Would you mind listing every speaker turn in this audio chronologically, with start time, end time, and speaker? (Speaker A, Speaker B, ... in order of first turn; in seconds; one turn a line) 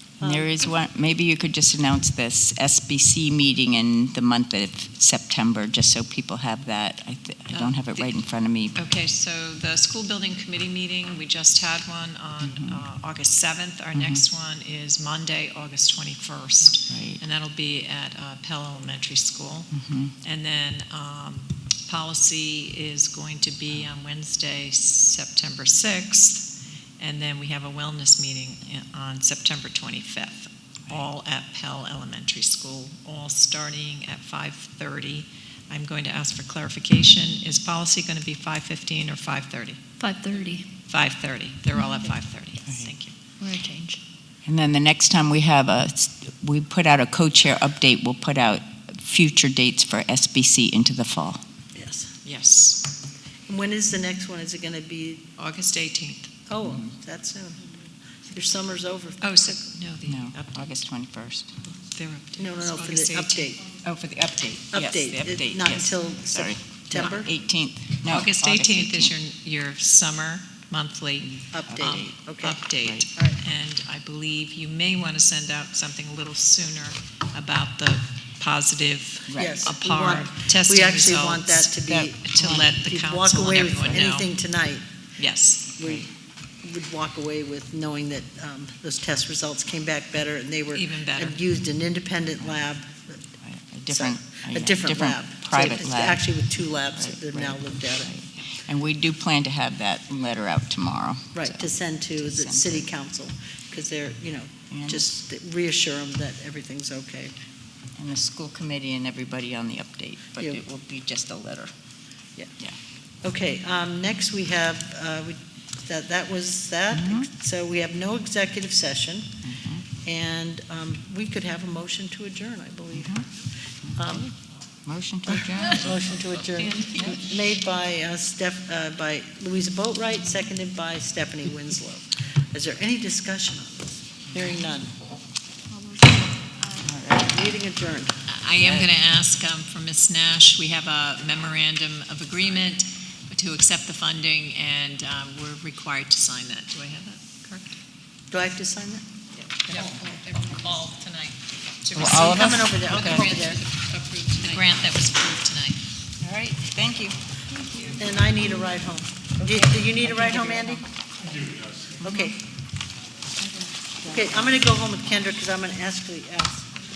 Speaker A: 0.2-0.7
Speaker B: 0.2-8.8
Speaker C: 7.5-8.2
Speaker C: 8.7-39.8
Speaker B: 12.4-12.8
Speaker B: 13.9-14.2
Speaker B: 16.9-17.2
Speaker B: 19.7-20.1
Speaker D: 40.0-40.7
Speaker C: 40.9-43.1
Speaker D: 43.4-44.0
Speaker B: 44.4-51.4
Speaker A: 51.7-52.1
Speaker C: 52.2-52.8
Speaker A: 53.5-55.2
Speaker C: 55.4-56.3
Speaker A: 56.5-57.7
Speaker B: 56.6-56.9
Speaker A: 58.3-59.5
Speaker C: 59.2-60.7
Speaker B: 60.0-61.5
Speaker C: 61.8-63.6
Speaker A: 62.4-63.6
Speaker B: 63.8-69.1
Speaker A: 64.7-67.3
Speaker C: 68.1-84.3
Speaker B: 71.2-72.1
Speaker A: 71.5-72.6
Speaker B: 72.8-73.0
Speaker B: 79.3-79.6
Speaker A: 79.4-84.8
Speaker C: 85.2-85.8
Speaker A: 85.8-86.1
Speaker A: 86.6-93.2
Speaker C: 90.7-91.4
Speaker B: 93.4-96.3
Speaker A: 93.9-98.1
Speaker B: 96.9-102.9
Speaker A: 101.3-107.3
Speaker B: 104.7-105.1
Speaker B: 108.0-111.7
Speaker A: 113.2-119.3
Speaker B: 116.9-117.3
Speaker B: 119.4-119.8
Speaker A: 120.0-123.2
Speaker B: 122.9-123.2
Speaker B: 123.8-124.3
Speaker A: 123.9-124.3
Speaker B: 124.8-126.0
Speaker A: 125.2-134.9
Speaker D: 126.6-127.2
Speaker D: 135.7-136.8
Speaker B: 136.8-137.3
Speaker A: 137.1-138.1
Speaker C: 138.3-147.7
Speaker B: 138.6-138.9
Speaker A: 148.3-149.1
Speaker C: 149.3-153.3
Speaker D: 149.7-150.9
Speaker B: 151.9-152.7
Speaker D: 152.0-154.7
Speaker A: 152.1-153.6
Speaker C: 154.4-155.8
Speaker B: 156.2-157.2
Speaker D: 157.6-158.0
Speaker A: 157.9-160.8
Speaker B: 159.4-160.8
Speaker B: 162.0-162.3
Speaker A: 162.0-162.4
Speaker B: 163.4-165.1
Speaker A: 164.1-166.7